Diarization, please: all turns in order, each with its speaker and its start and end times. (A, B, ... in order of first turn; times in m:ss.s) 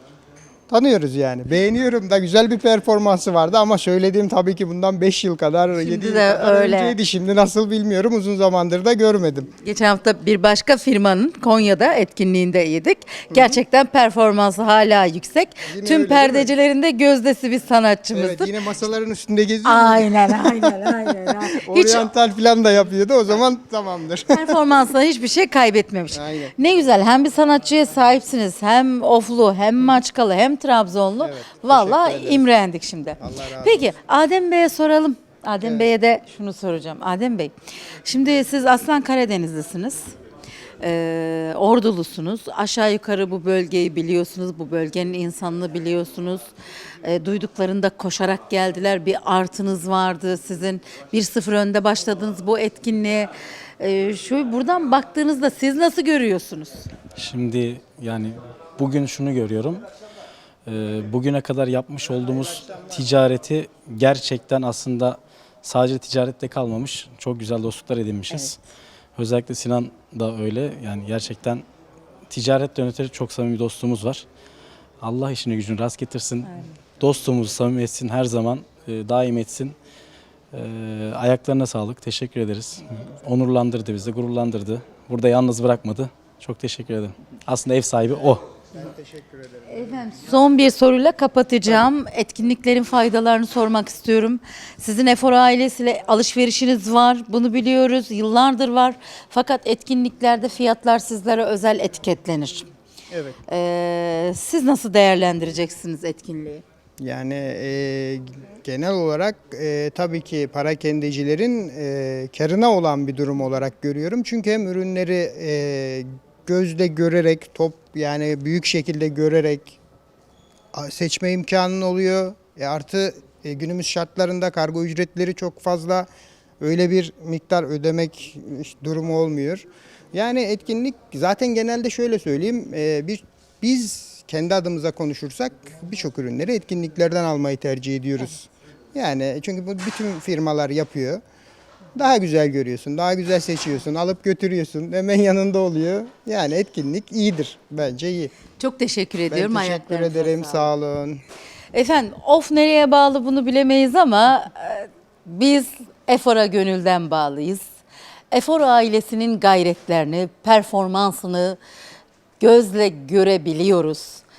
0:00.7-0:09.5 A
0:05.8-0:07.0 B
0:09.6-0:18.6 B
0:13.3-0:13.6 A
0:15.6-0:16.5 A
0:18.1-0:24.5 A
0:19.6-0:22.1 B
0:24.3-0:37.5 B
0:26.1-0:26.5 A
0:31.2-0:32.4 A
0:33.2-0:33.9 A
0:35.6-0:35.9 A
0:38.0-0:40.1 B
0:40.8-0:46.5 B
0:47.0-0:56.9 B
0:57.2-0:59.8 C
1:00.6-1:08.6 C
1:08.3-1:08.6 B
1:09.2-1:11.6 C
1:12.3-1:14.2 C
1:15.0-1:19.7 C
1:20.5-1:28.4 C
1:28.7-1:30.0 A
1:29.7-1:42.7 B
1:43.1-1:43.4 A
1:43.5-1:46.6 B
1:47.0-1:59.8 A
2:00.7-2:06.1 A
2:06.6-2:21.2 A
2:21.9-2:28.3 A
2:28.6-2:30.7 B
2:29.3-2:31.2 A
2:31.7-2:37.6 B
2:38.3-2:41.6 B
2:42.4-2:44.2 B